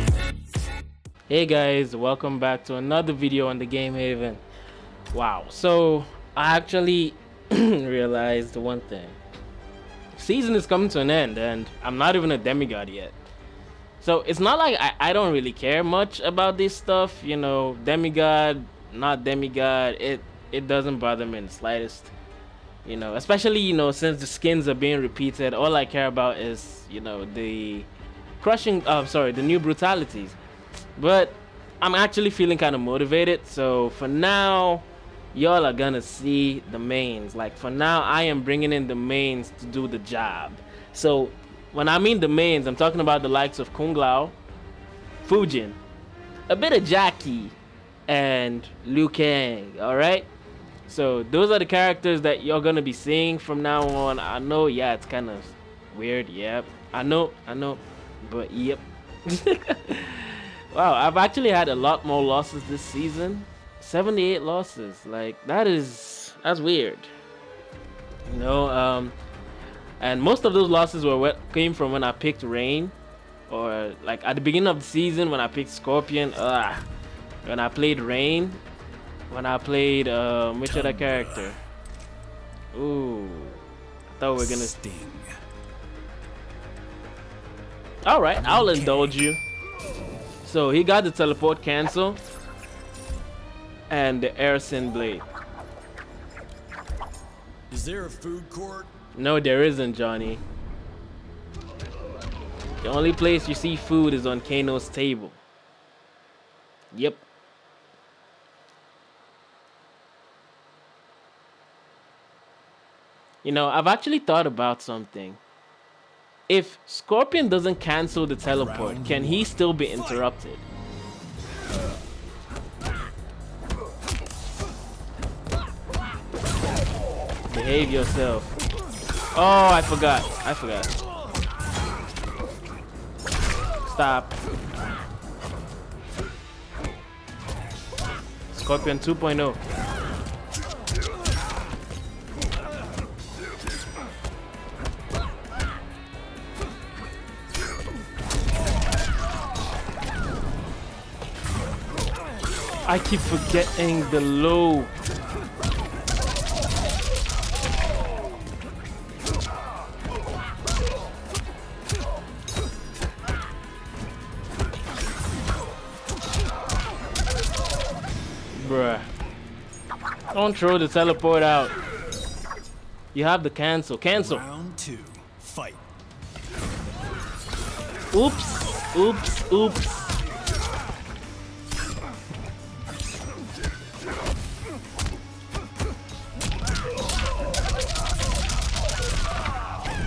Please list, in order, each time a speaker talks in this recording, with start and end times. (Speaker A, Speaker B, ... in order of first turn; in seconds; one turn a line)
Speaker A: 1.3-4.4
Speaker A: 5.1-9.2
Speaker A: 10.2-13.1
Speaker A: 14.0-22.1
Speaker A: 22.8-27.9
Speaker A: 28.4-30.4
Speaker A: 30.9-44.4
Speaker A: 45.2-45.8
Speaker A: 46.5-47.5
Speaker A: 48.1-50.3
Speaker A: 50.9-67.1
Speaker A: 68.3-69.1
Speaker A: 70.0-72.9
Speaker A: 73.5-76.8
Speaker A: 77.4-78.6
Speaker A: 79.3-81.6
Speaker B: 80.6-81.6
Speaker A: 82.7-83.6
Speaker A: 84.2-84.7
Speaker B: 84.3-85.3
Speaker A: 88.0-89.4
Speaker B: 88.4-89.3
Speaker A: 90.4-92.2
Speaker A: 93.9-95.2
Speaker B: 97.7-98.9
Speaker A: 99.2-100.4
Speaker A: 102.8-105.4
Speaker A: 106.9-107.2
Speaker A: 113.4-115.4
Speaker A: 116.5-120.6
Speaker B: 118.4-120.2
Speaker A: 127.5-128.5
Speaker A: 129.3-130.9
Speaker A: 133.9-134.3
Speaker A: 138.5-139.6
Speaker A: 152.9-154.9
Speaker A: 168.5-169.1
Speaker A: 170.3-171.8
Speaker A: 173.1-174.4
Speaker B: 174.1-175.8
Speaker A: 178.1-180.1